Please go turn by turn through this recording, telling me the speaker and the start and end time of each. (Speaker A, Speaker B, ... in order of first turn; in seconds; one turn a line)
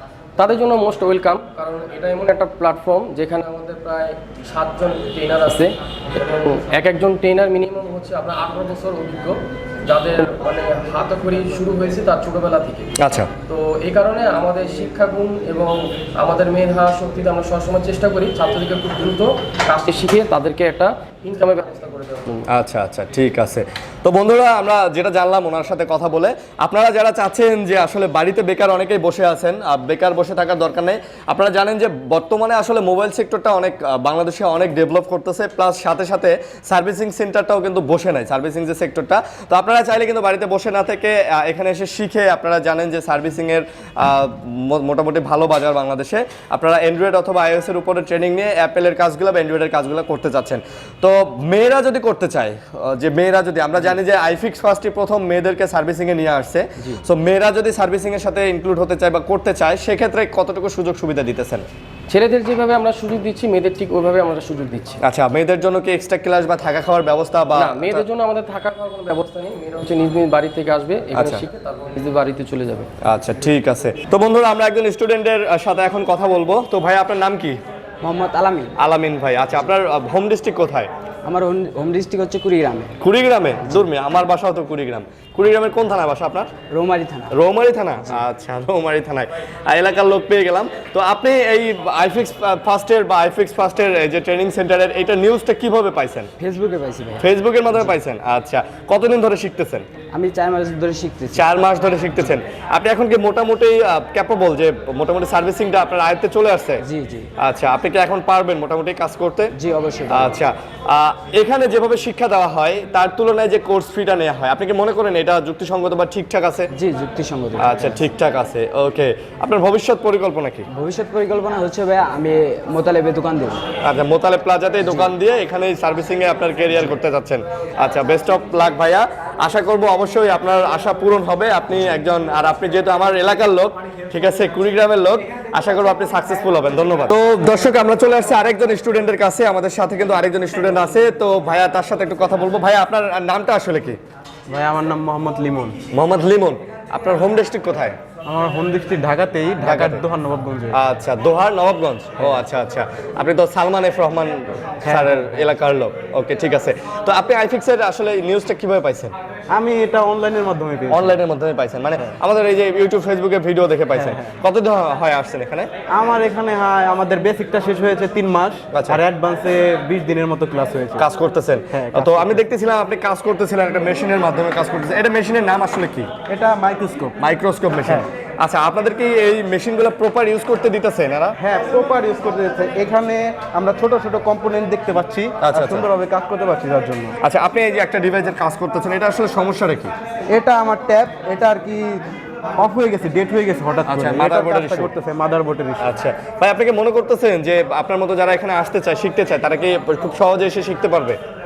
Speaker A: 0.4-12.9
Speaker B: 13.0-13.3
Speaker A: 13.5-22.5
Speaker B: 22.5-61.7
Speaker A: 62.1-65.0
Speaker B: 65.0-68.0
Speaker A: 67.5-72.9
Speaker B: 71.2-71.4
Speaker B: 73.0-77.6
Speaker C: 78.0-78.7
Speaker B: 78.8-80.9
Speaker C: 81.2-82.9
Speaker B: 83.0-86.5
Speaker C: 86.7-87.3
Speaker B: 87.3-96.3
Speaker C: 96.4-97.9
Speaker B: 97.2-99.9
Speaker C: 100.1-101.5
Speaker B: 101.3-106.8
Speaker C: 106.8-107.3
Speaker B: 107.4-109.5
Speaker C: 109.5-110.4
Speaker B: 110.1-116.7
Speaker C: 116.7-118.0
Speaker B: 117.6-120.7
Speaker C: 120.7-123.6
Speaker B: 123.8-144.0
Speaker C: 124.8-125.1
Speaker D: 144.5-145.8
Speaker B: 145.9-148.0
Speaker D: 148.3-150.8
Speaker B: 149.6-150.0
Speaker B: 150.7-159.1
Speaker D: 154.8-155.5
Speaker D: 159.5-161.2
Speaker B: 160.9-165.7
Speaker D: 163.9-164.3
Speaker D: 165.9-171.1
Speaker B: 168.7-169.0
Speaker B: 171.0-176.1
Speaker D: 171.7-172.4
Speaker D: 176.3-177.2
Speaker B: 177.2-181.4
Speaker D: 181.4-187.2
Speaker B: 185.4-185.9
Speaker B: 187.2-189.9
Speaker D: 190.3-192.0
Speaker D: 192.6-196.0
Speaker B: 193.9-194.9
Speaker B: 195.8-201.2